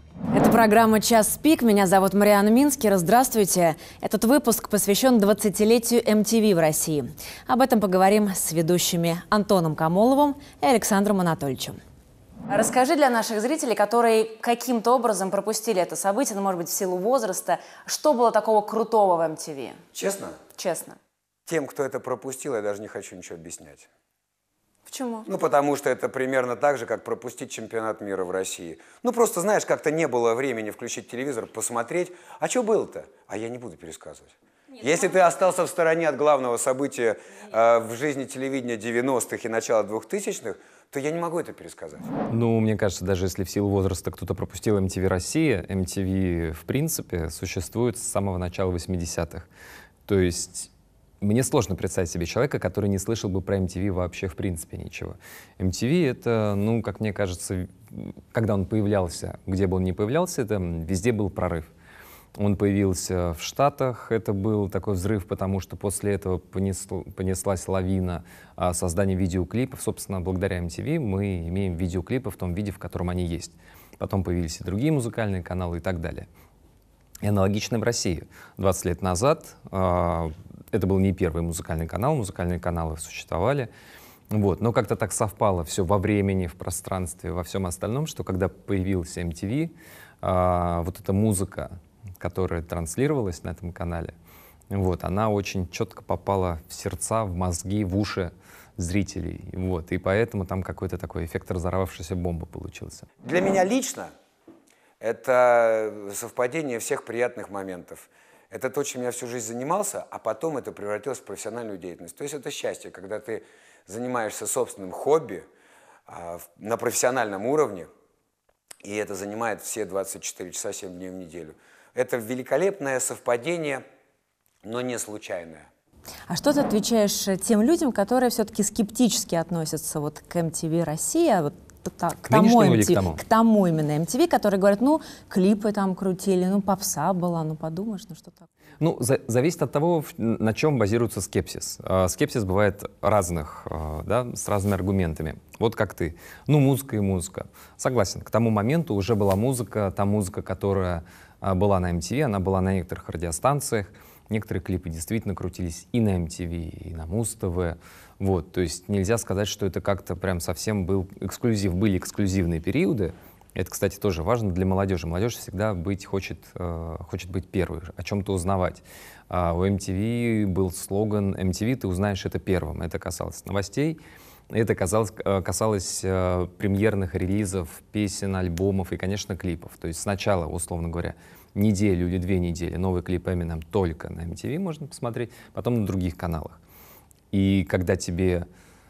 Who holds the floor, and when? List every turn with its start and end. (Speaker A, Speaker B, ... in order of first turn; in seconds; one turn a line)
Speaker A: 0.3-11.8
Speaker A: 12.5-19.8
Speaker B: 19.9-20.4
Speaker A: 20.6-21.0
Speaker B: 21.5-23.9
Speaker A: 24.9-25.3
Speaker B: 25.2-42.1
Speaker C: 42.3-49.5
Speaker C: 50.0-50.7
Speaker C: 51.2-61.7
Speaker C: 62.4-76.3
Speaker C: 77.2-83.7
Speaker C: 84.3-94.1
Speaker C: 94.7-103.1
Speaker B: 103.2-104.1
Speaker B: 105.0-115.5
Speaker B: 116.1-117.9
Speaker B: 118.8-123.8
Speaker B: 124.6-125.7
Speaker A: 126.3-138.5
Speaker C: 132.2-133.2
Speaker C: 138.8-186.6
Speaker C: 187.3-188.5